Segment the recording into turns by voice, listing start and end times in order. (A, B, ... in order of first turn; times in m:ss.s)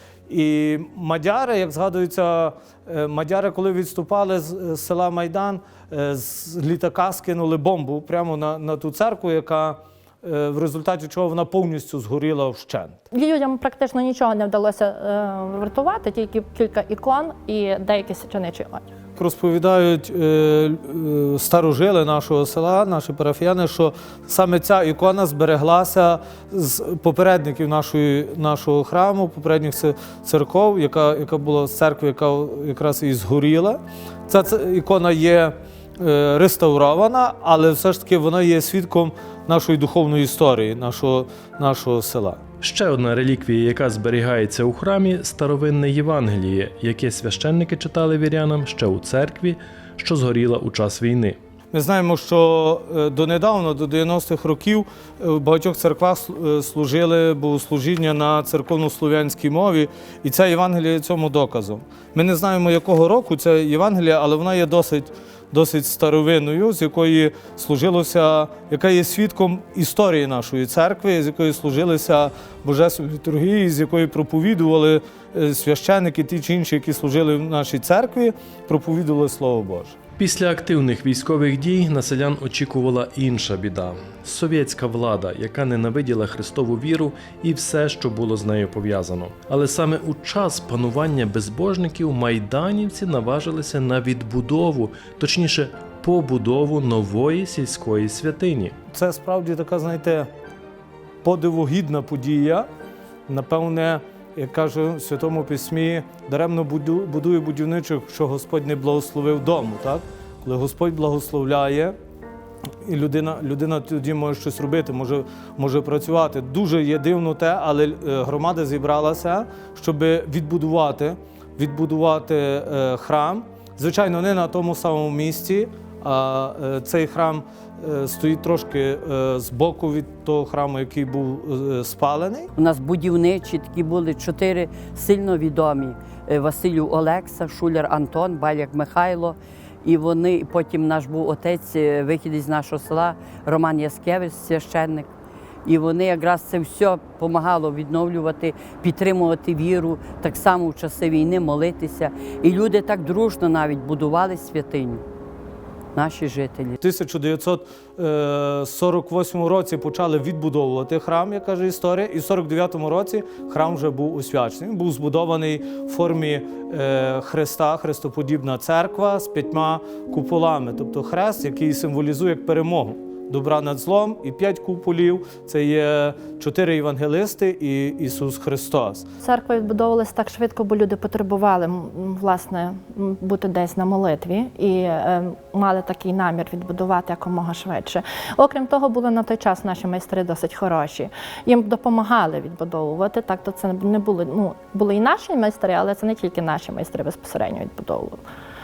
0:00.3-0:13.0 A
0:13.1-0:18.8 B
0:19.2-0:42.4 A
0:42.6-0:51.4 C
0:51.7-1:20.0 A
1:20.2-1:38.7 C
1:38.9-1:40.3 A
1:41.2-1:42.7 A
1:43.3-1:51.9 A
1:52.8-2:12.5 A
2:12.6-2:25.1 D
2:25.6-2:35.0 D
2:35.9-2:36.8 D
2:36.8-2:59.0 A
2:59.2-3:18.2 B